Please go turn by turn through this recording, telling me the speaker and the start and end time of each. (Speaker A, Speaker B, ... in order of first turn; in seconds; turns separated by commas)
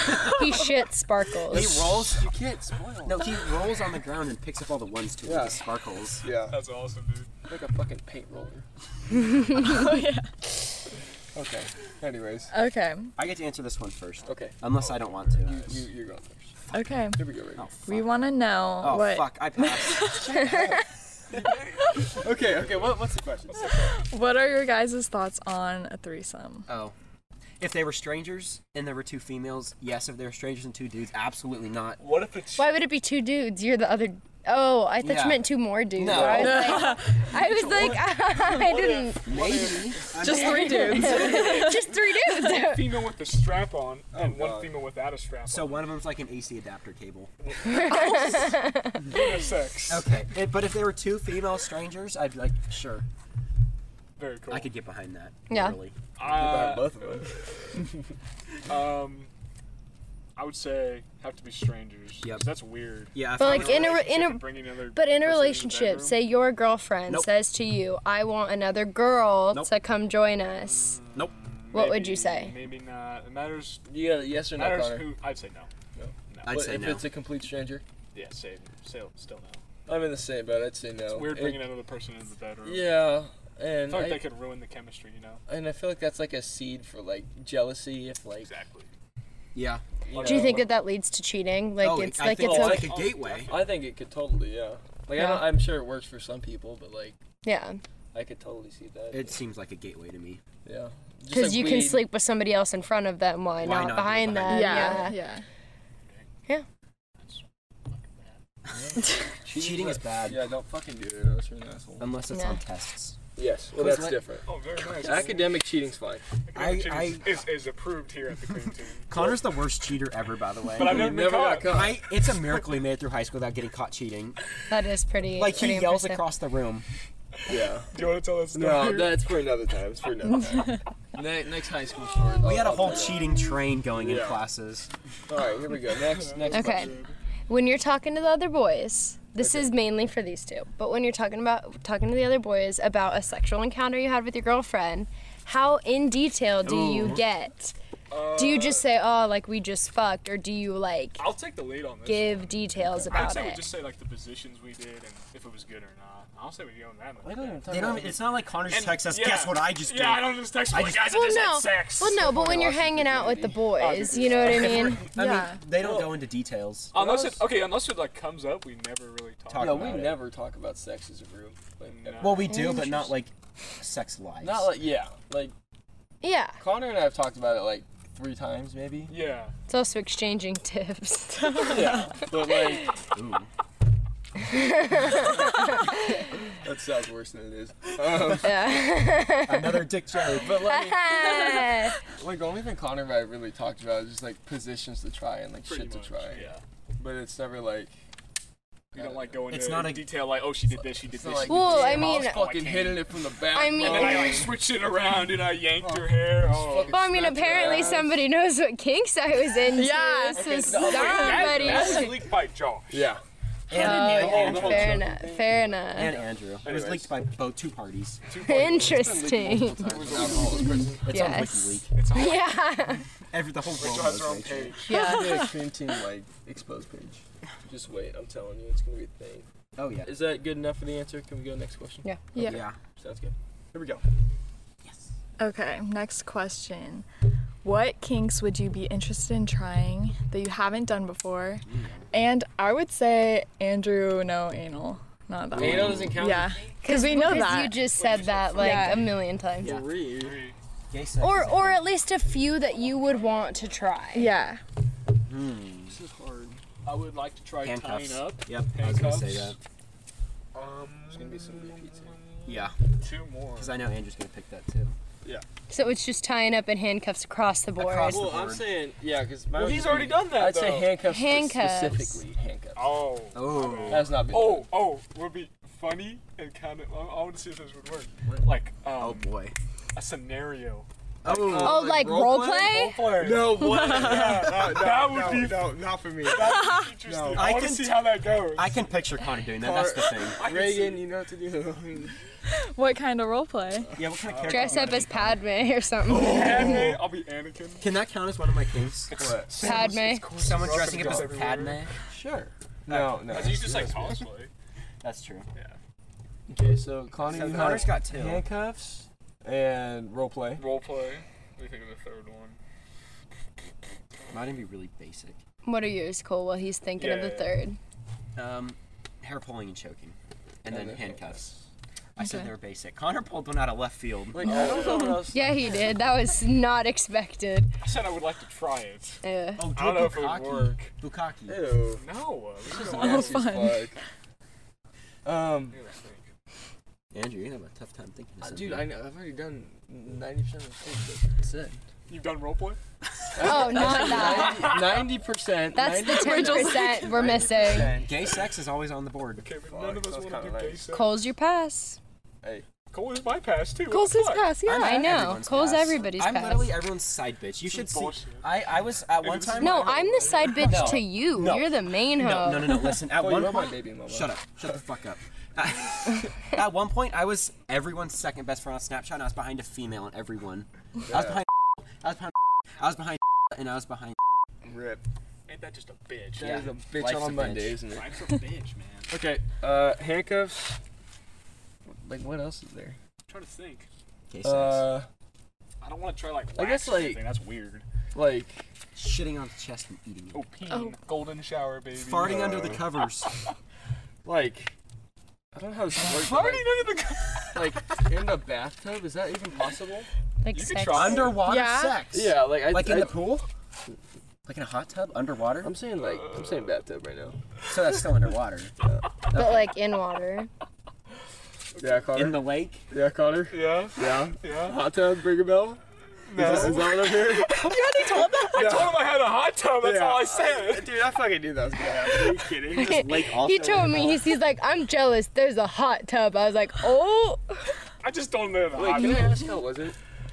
Speaker A: 0.2-1.8, Speaker B: 1.5-2.3, Speaker C: 1.5-3.3, Speaker B: 3.0-6.2, Speaker C: 5.2-5.6, Speaker C: 6.2-6.6, Speaker D: 6.5-7.3, Speaker C: 7.5-8.7, Speaker E: 9.6-10.3, Speaker C: 11.3-12.5, Speaker E: 12.5-13.1, Speaker B: 13.2-15.8, Speaker C: 14.3-14.6, Speaker C: 15.3-16.6, Speaker E: 16.7-17.2, Speaker C: 17.2-17.7, Speaker B: 17.6-18.1, Speaker E: 17.9-20.4, Speaker B: 18.8-20.7, Speaker C: 20.3-20.8, Speaker C: 21.3-23.8, Speaker D: 23.5-23.9, Speaker E: 23.9-26.7, Speaker B: 26.7-26.9, Speaker B: 27.6-32.0, Speaker D: 32.0-32.7, Speaker A: 32.6-39.5, Speaker B: 35.0-36.9, Speaker C: 36.1-36.6, Speaker E: 36.4-37.0, Speaker D: 37.3-40.1, Speaker B: 39.2-41.0, Speaker E: 40.2-41.9, Speaker A: 40.4-42.9, Speaker D: 40.9-45.9, Speaker C: 44.1-44.7, Speaker B: 45.5-47.3, Speaker D: 47.4-50.1, Speaker A: 47.6-49.3, Speaker B: 49.9-53.0, Speaker D: 54.2-54.7, Speaker B: 54.5-56.0, Speaker A: 55.5-55.8, Speaker D: 56.2-57.4, Speaker C: 56.2-57.4, Speaker D: 58.7-59.3, Speaker D: 60.4-66.2, Speaker B: 63.1-64.0, Speaker A: 63.4-71.0, Speaker D: 70.7-73.8, Speaker A: 71.7-72.5, Speaker C: 73.9-75.1, Speaker D: 74.5-75.7, Speaker C: 76.0-77.8, Speaker D: 76.3-76.6, Speaker B: 76.4-77.1, Speaker D: 78.1-79.6, Speaker C: 79.9-81.7, Speaker D: 81.1-83.0, Speaker C: 82.6-84.3, Speaker D: 83.9-85.4, Speaker C: 85.5-88.5, Speaker D: 88.4-88.9, Speaker B: 89.5-89.8, Speaker C: 90.1-90.7, Speaker D: 90.1-90.6, Speaker A: 90.2-93.0, Speaker B: 91.8-93.5, Speaker C: 92.4-97.2, Speaker D: 92.7-93.8, Speaker A: 97.4-97.8, Speaker C: 98.1-99.4, Speaker B: 99.1-100.4, Speaker C: 100.7-102.1, Speaker A: 101.3-105.2, Speaker B: 103.6-105.1, Speaker E: 104.5-105.4, Speaker D: 107.2-108.4, Speaker C: 108.7-112.1, Speaker B: 109.5-110.5, Speaker B: 112.0-113.2, Speaker A: 112.3-112.6, Speaker C: 113.4-116.2, Speaker B: 113.7-114.2, Speaker D: 114.5-115.6, Speaker D: 116.5-119.1, Speaker B: 116.5-117.3, Speaker B: 119.1-124.4, Speaker D: 120.7-122.0, Speaker C: 120.8-122.0, Speaker A: 124.7-126.2, Speaker B: 125.4-126.8, Speaker C: 127.5-127.9, Speaker D: 127.9-129.4, Speaker C: 128.5-133.4, Speaker B: 132.4-134.9, Speaker C: 133.9-134.4, Speaker C: 135.3-137.0, Speaker D: 135.9-137.2, Speaker A: 136.5-136.9, Speaker A: 137.5-147.8, Speaker C: 139.4-139.7, Speaker B: 146.6-147.2, Speaker D: 148.1-148.8, Speaker A: 148.3-151.2, Speaker D: 151.2-158.1, Speaker A: 152.1-153.7, Speaker C: 157.2-158.2, Speaker B: 157.7-161.1, Speaker D: 158.6-162.2, Speaker A: 160.9-165.0, Speaker C: 162.0-163.7, Speaker D: 163.8-165.1, Speaker C: 164.3-165.0, Speaker B: 164.7-166.9, Speaker E: 165.1-165.6, Speaker C: 165.8-166.1, Speaker D: 166.9-170.1, Speaker C: 166.9-167.5, Speaker B: 169.5-170.2, Speaker C: 169.6-172.6, Speaker D: 171.9-172.5, Speaker B: 172.2-174.7, Speaker A: 172.5-173.1, Speaker C: 174.4-175.5, Speaker A: 176.2-176.6, Speaker C: 176.6-179.2, Speaker D: 179.1-179.5, Speaker A: 179.7-182.0, Speaker C: 181.6-182.9, Speaker B: 183.1-183.5, Speaker A: 184.5-185.7, Speaker C: 186.6-188.7, Speaker A: 188.4-192.0, Speaker B: 189.5-190.6, Speaker C: 190.4-191.5, Speaker C: 192.2-197.9, Speaker D: 195.7-196.6, Speaker C: 198.9-199.4, Speaker D: 198.9-203.1, Speaker B: 199.5-200.1, Speaker C: 201.1-204.6, Speaker A: 201.5-202.5, Speaker A: 203.5-204.5, Speaker D: 203.8-208.0, Speaker C: 205.8-208.2, Speaker A: 206.9-212.2, Speaker E: 209.7-212.0, Speaker C: 210.4-212.1, Speaker D: 210.6-213.1, Speaker C: 212.9-213.2, Speaker B: 213.7-215.0, Speaker A: 213.7-216.2, Speaker C: 213.8-215.7, Speaker D: 214.2-214.9, Speaker B: 215.9-218.2, Speaker D: 216.6-217.1, Speaker C: 216.6-217.0, Speaker D: 218.3-219.1, Speaker A: 218.4-220.1, Speaker C: 218.6-221.1, Speaker B: 219.8-221.9, Speaker D: 220.0-220.7, Speaker A: 221.1-223.1, Speaker D: 221.9-222.6, Speaker B: 223.3-224.8, Speaker D: 223.7-225.0, Speaker A: 224.9-225.4, Speaker E: 224.9-225.5, Speaker C: 224.9-229.5, Speaker B: 229.8-230.1, Speaker C: 230.0-234.0, Speaker B: 232.4-232.8, Speaker E: 235.4-237.1, Speaker E: 237.6-247.9, Speaker B: 241.7-242.1, Speaker B: 245.5-246.2, Speaker C: 245.5-246.8, Speaker A: 246.8-249.7, Speaker D: 247.8-249.1, Speaker E: 248.5-249.2, Speaker B: 249.6-249.9, Speaker C: 249.6-250.4, Speaker D: 250.1-250.6, Speaker B: 250.9-251.8, Speaker A: 251.2-254.3, Speaker D: 253.1-253.7, Speaker E: 254.1-254.6, Speaker B: 255.1-256.0, Speaker C: 255.9-256.6, Speaker D: 256.9-259.6, Speaker B: 257.6-259.6, Speaker D: 260.5-263.8, Speaker C: 261.1-262.1, Speaker B: 262.5-262.8, Speaker B: 263.6-264.9, Speaker A: 265.7-268.3, Speaker B: 267.8-268.7, Speaker C: 268.1-273.1, Speaker D: 269.5-271.0, Speaker A: 271.0-272.2, Speaker D: 272.8-279.3, Speaker B: 273.3-274.2, Speaker C: 273.9-274.7, Speaker B: 279.0-279.6, Speaker D: 279.9-280.9, Speaker B: 281.2-281.9, Speaker C: 281.2-287.6, Speaker A: 281.5-283.2, Speaker D: 282.6-288.8, Speaker E: 283.6-284.6, Speaker B: 287.3-290.4, Speaker C: 289.6-292.2, Speaker D: 290.1-291.1, Speaker E: 292.5-293.9, Speaker B: 294.0-295.4, Speaker D: 294.2-295.0, Speaker A: 294.5-296.9, Speaker D: 296.1-297.9, Speaker C: 296.6-296.9, Speaker B: 297.8-301.9, Speaker D: 299.1-301.9, Speaker C: 299.1-299.6, Speaker A: 299.6-300.4, Speaker C: 300.7-301.3, Speaker C: 302.1-304.2, Speaker D: 302.9-304.5, Speaker B: 305.0-305.5, Speaker C: 306.5-310.6, Speaker B: 307.3-308.5, Speaker D: 307.4-307.9, Speaker D: 310.6-312.6, Speaker B: 314.3-315.4, Speaker A: 315.6-317.8, Speaker D: 317.0-317.5, Speaker B: 318.4-321.5, Speaker C: 320.7-321.6, Speaker B: 322.2-324.6, Speaker E: 322.2-322.5, Speaker C: 324.3-325.4, Speaker E: 324.5-325.2, Speaker D: 324.5-325.0, Speaker A: 324.6-327.7, Speaker D: 327.8-329.2, Speaker A: 329.2-329.7, Speaker B: 329.6-331.6, Speaker D: 329.8-330.9, Speaker C: 331.5-332.0, Speaker D: 332.0-333.5, Speaker C: 332.7-334.0, Speaker E: 332.8-333.9, Speaker C: 335.2-335.8, Speaker D: 335.7-336.3, Speaker B: 337.1-338.9, Speaker C: 338.4-341.8, Speaker D: 342.1-342.8, Speaker C: 343.4-348.2, Speaker A: 343.4-344.7, Speaker B: 343.6-344.0, Speaker D: 344.2-345.1, Speaker A: 345.7-348.0, Speaker E: 346.1-347.1, Speaker B: 348.0-349.5, Speaker D: 349.4-351.2, Speaker C: 349.7-350.9, Speaker A: 350.9-352.0, Speaker D: 352.9-354.6, Speaker A: 353.9-356.8, Speaker E: 354.6-355.1, Speaker B: 354.6-360.0, Speaker D: 357.6-360.9, Speaker A: 359.6-363.0, Speaker B: 360.6-371.5, Speaker C: 363.1-364.4, Speaker C: 371.1-371.4, Speaker B: 372.0-374.1, Speaker C: 374.7-375.0, Speaker D: 375.5-376.7, Speaker C: 376.4-378.1, Speaker B: 376.4-377.8, Speaker D: 377.9-379.1, Speaker C: 379.1-380.8, Speaker C: 382.0-383.0, Speaker D: 383.3-383.9, Speaker B: 384.3-384.9, Speaker C: 384.4-385.1, Speaker D: 385.8-387.9, Speaker C: 386.6-387.2, Speaker C: 388.1-388.7, Speaker B: 388.9-390.5, Speaker D: 390.3-392.6, Speaker B: 391.9-393.3, Speaker C: 392.2-392.8, Speaker C: 394.2-394.7, Speaker C: 395.5-396.8, Speaker D: 395.9-397.8, Speaker C: 397.5-400.1, Speaker A: 400.4-401.4, Speaker D: 400.5-401.5, Speaker B: 400.9-403.5, Speaker E: 401.4-402.0, Speaker C: 402.1-403.5, Speaker B: 404.4-405.7, Speaker C: 405.6-407.4, Speaker D: 406.0-406.6, Speaker B: 407.7-408.7, Speaker B: 409.3-409.7, Speaker A: 409.3-410.5, Speaker D: 411.8-412.1, Speaker C: 411.8-415.8, Speaker B: 412.1-412.8, Speaker D: 413.5-414.8, Speaker D: 416.3-420.9, Speaker C: 416.3-417.8, Speaker B: 416.4-416.7, Speaker C: 418.4-419.1, Speaker C: 419.8-423.0, Speaker B: 422.7-424.2, Speaker A: 422.7-427.6, Speaker D: 428.0-429.4, Speaker C: 428.7-430.0, Speaker E: 428.9-429.3